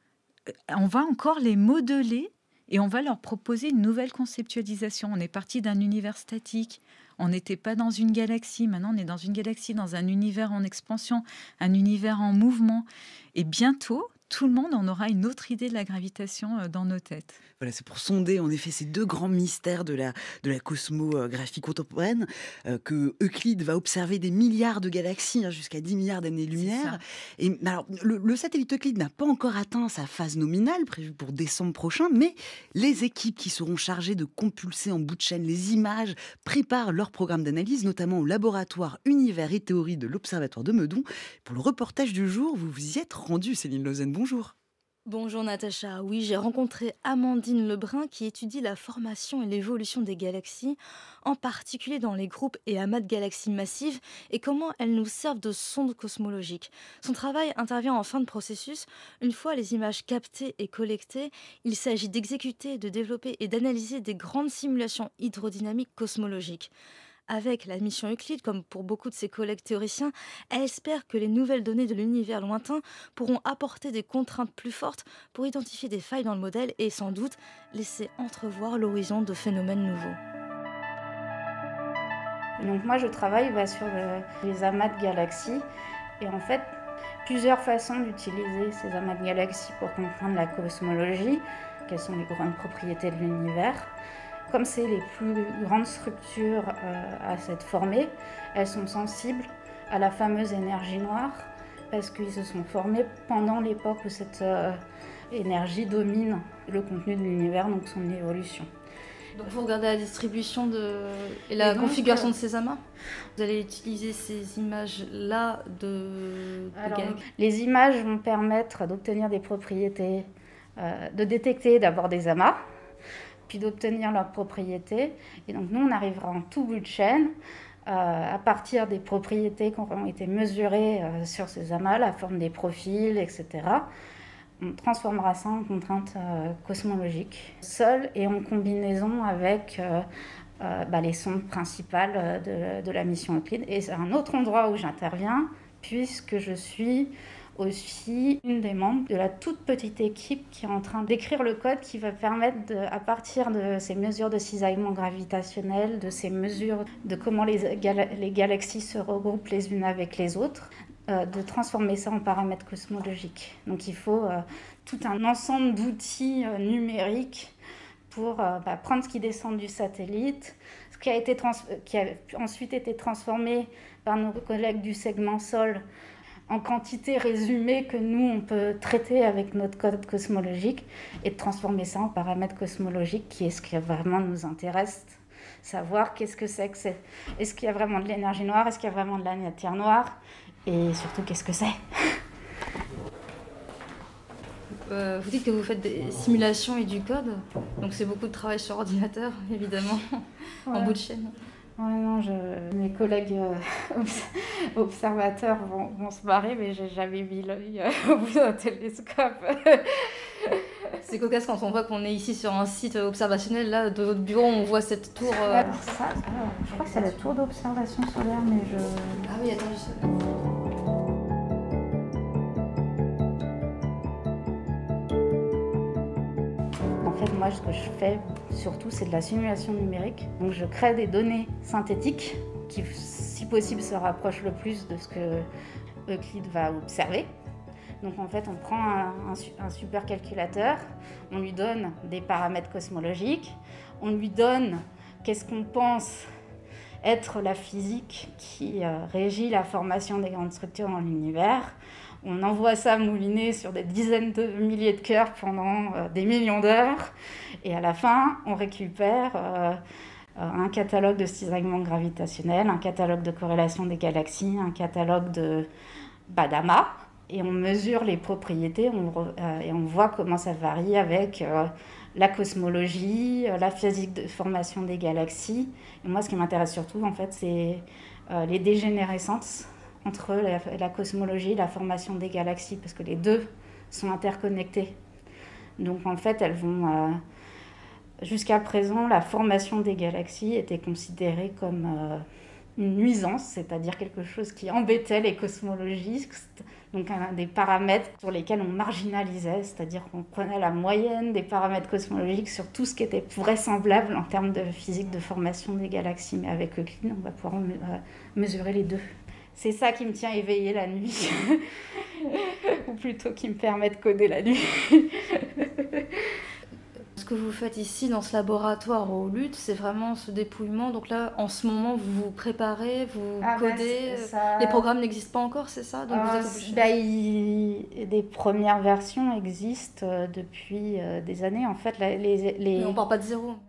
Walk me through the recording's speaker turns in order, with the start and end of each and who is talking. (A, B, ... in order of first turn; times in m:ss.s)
0:00.7-0:17.4 A
0:17.6-0:44.5 B
0:26.5-0:27.0 A
0:45.0-1:06.7 C
1:07.3-1:20.2 C
1:22.6-1:25.6 D
1:26.2-1:26.7 D
1:27.2-1:33.9 D
1:34.5-1:48.7 D
1:49.3-1:52.8 C
1:51.6-1:52.3 D
1:53.4-1:57.2 C
1:56.8-2:00.3 D
2:00.8-2:02.6 D
2:03.5-2:07.3 D
2:07.9-2:13.9 D
2:14.6-2:20.0 D
2:20.6-2:47.5 D
2:48.1-2:55.8 D
2:56.5-3:12.2 D
3:14.9-3:21.3 C
3:20.7-3:21.0 D
3:21.8-3:30.7 D
3:31.0-3:35.8 C
3:35.2-3:39.2 D
3:36.7-3:37.2 C
3:39.2-3:40.1 C
3:47.0-3:55.4 D
3:56.1-3:57.3 D
3:58.0-4:06.2 D
4:07.0-4:19.8 D
4:20.4-4:25.7 D
4:26.3-4:45.0 D
4:45.8-4:47.2 D
4:48.2-4:52.2 D
4:52.8-5:09.0 D
5:09.5-5:11.6 D
5:12.2-5:16.2 D
5:17.2-5:26.8 C
5:23.4-5:24.8 D
5:26.1-5:33.0 D
5:32.8-5:33.6 C